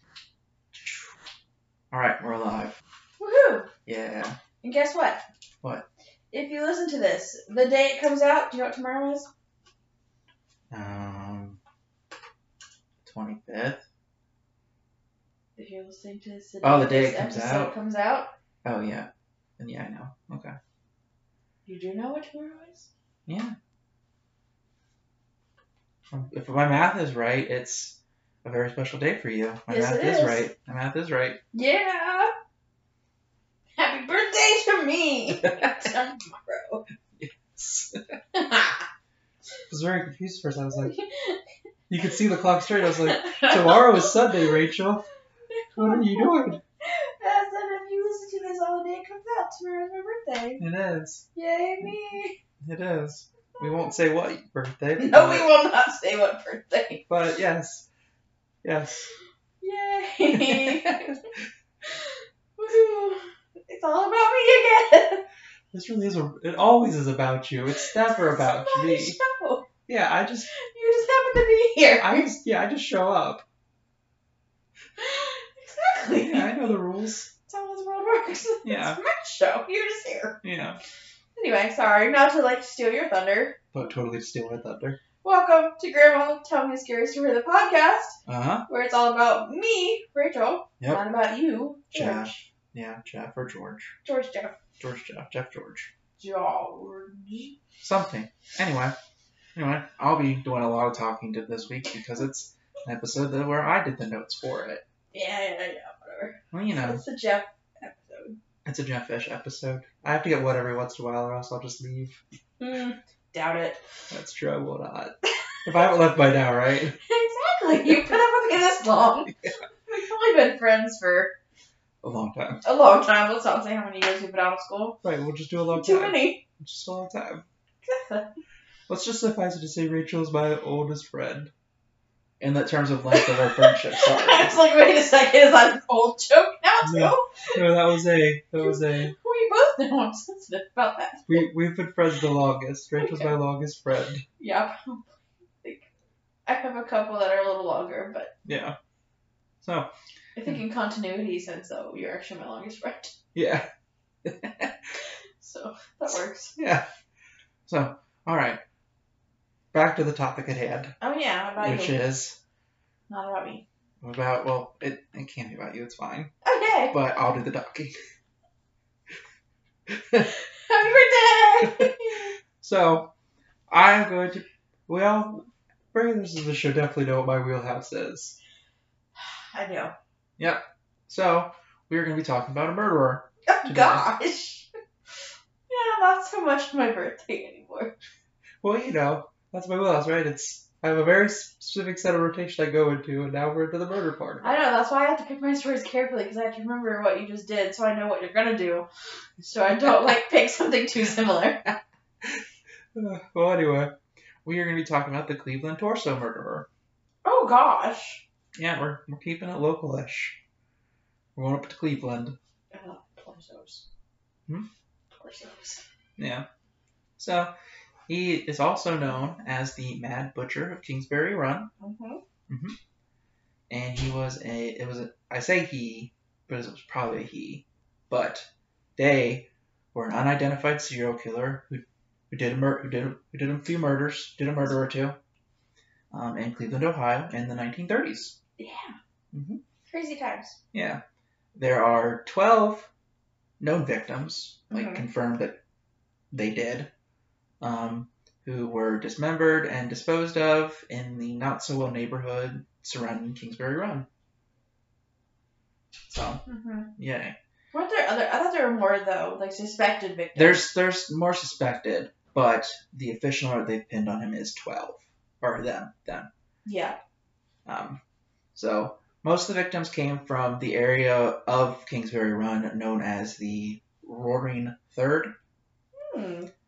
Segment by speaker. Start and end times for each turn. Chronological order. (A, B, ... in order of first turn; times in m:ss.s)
0:01.9-0:02.8 A
0:03.2-0:03.7 B
0:03.9-0:04.4 A
0:04.6-0:05.2 B
0:06.3-0:09.3 B
0:10.7-0:11.6 A
0:13.0-0:13.8 A
0:15.6-0:18.3 B
0:16.6-0:17.8 A
0:18.6-0:20.6 A
0:21.7-0:22.9 B
0:23.3-0:23.5 A
0:26.1-0:31.4 A
0:29.7-0:30.4 B
0:31.5-0:32.3 B
0:33.8-0:36.8 B
0:35.4-0:35.9 A
0:37.2-0:38.0 A
0:38.3-0:38.9 B
0:39.7-0:40.9 A
0:40.8-0:41.4 B
0:41.9-0:45.0 A
0:42.8-0:44.5 B
0:45.5-0:50.6 B
0:45.8-0:46.6 A
0:50.6-0:51.2 A
0:51.3-0:52.4 B
0:52.6-0:55.5 A
0:55.0-0:57.0 B
0:57.1-0:57.9 A
0:58.6-0:59.1 A
0:59.6-1:01.1 B
1:00.3-1:01.4 A
1:01.8-1:05.2 B
1:05.7-1:09.2 A
1:07.8-1:09.7 B
1:09.9-1:10.5 A
1:10.5-1:12.3 B
1:12.0-1:13.4 A
1:15.0-1:16.7 B
1:16.2-1:17.3 A
1:17.5-1:20.4 B
1:18.6-1:19.0 A
1:20.4-1:20.8 A
1:21.4-1:23.6 B
1:23.7-1:25.0 A
1:25.2-1:32.4 B
1:28.3-1:28.6 A
1:31.9-1:33.9 A
1:34.0-1:34.6 B
1:34.8-1:35.9 A
1:36.2-1:37.6 B
1:37.8-1:39.0 A
1:39.6-1:44.8 A
1:45.1-1:48.4 B
1:46.5-1:47.0 A
1:48.6-1:52.2 A
1:52.6-1:53.8 B
1:54.1-1:57.0 A
1:57.0-2:01.3 B
2:02.0-2:02.6 A
2:02.6-2:05.0 B
2:05.0-2:07.4 A
2:05.7-2:06.4 B
2:07.8-2:08.3 B
2:08.9-2:11.5 A
2:12.4-2:14.6 A
2:13.1-2:17.6 B
2:16.8-2:19.1 A
2:18.6-2:21.4 B
2:21.3-2:24.2 A
2:23.0-2:23.3 B
2:24.4-2:25.1 B
2:25.6-2:25.9 B
2:26.5-2:28.3 B
2:28.4-2:28.8 A
2:29.6-2:29.9 A
2:30.4-2:33.1 B
2:33.3-2:33.7 A
2:34.2-2:34.9 A
2:35.4-2:36.6 B
2:36.6-2:36.8 A
2:37.7-2:38.6 A
2:39.7-2:40.9 A
2:41.0-2:42.0 B
2:41.6-2:42.4 A
2:43.1-2:43.6 B
2:44.0-2:46.3 A
2:46.4-2:46.9 B
2:46.9-2:47.9 A
2:49.9-2:50.3 A
2:50.5-2:52.3 B
2:51.6-2:51.9 A
2:52.6-2:53.1 A
2:53.7-2:58.4 A
2:59.2-2:59.9 B
3:00.4-3:04.1 A
3:03.5-3:04.7 B
3:05.7-3:07.9 B
3:08.6-3:14.5 A
3:14.4-3:18.8 B
3:19.4-3:21.7 B
3:22.9-3:26.7 A
3:27.2-3:28.2 B
3:28.6-3:30.4 A
3:31.4-3:32.4 A
3:32.7-3:33.9 B
3:35.2-3:35.8 B
3:36.2-3:36.5 A
3:37.2-3:37.5 A
3:38.1-3:41.7 A
3:41.8-3:42.2 B
3:42.5-3:42.8 A
3:43.7-3:55.2 A
3:56.1-3:58.4 A
3:58.6-3:59.0 B
3:59.3-3:59.6 A
3:59.9-4:00.6 B
4:00.7-4:01.0 A
4:01.6-4:02.9 A
4:03.6-4:05.6 A
4:04.7-4:05.0 B
4:06.3-4:06.9 A
4:07.6-4:14.1 A
4:16.1-4:16.4 A
4:16.4-4:16.9 B
4:17.0-4:17.4 A
4:17.7-4:20.6 B
4:20.3-4:26.3 A
4:26.6-4:27.0 B
4:27.6-4:28.0 A
4:28.5-4:35.3 A
4:35.9-4:36.5 B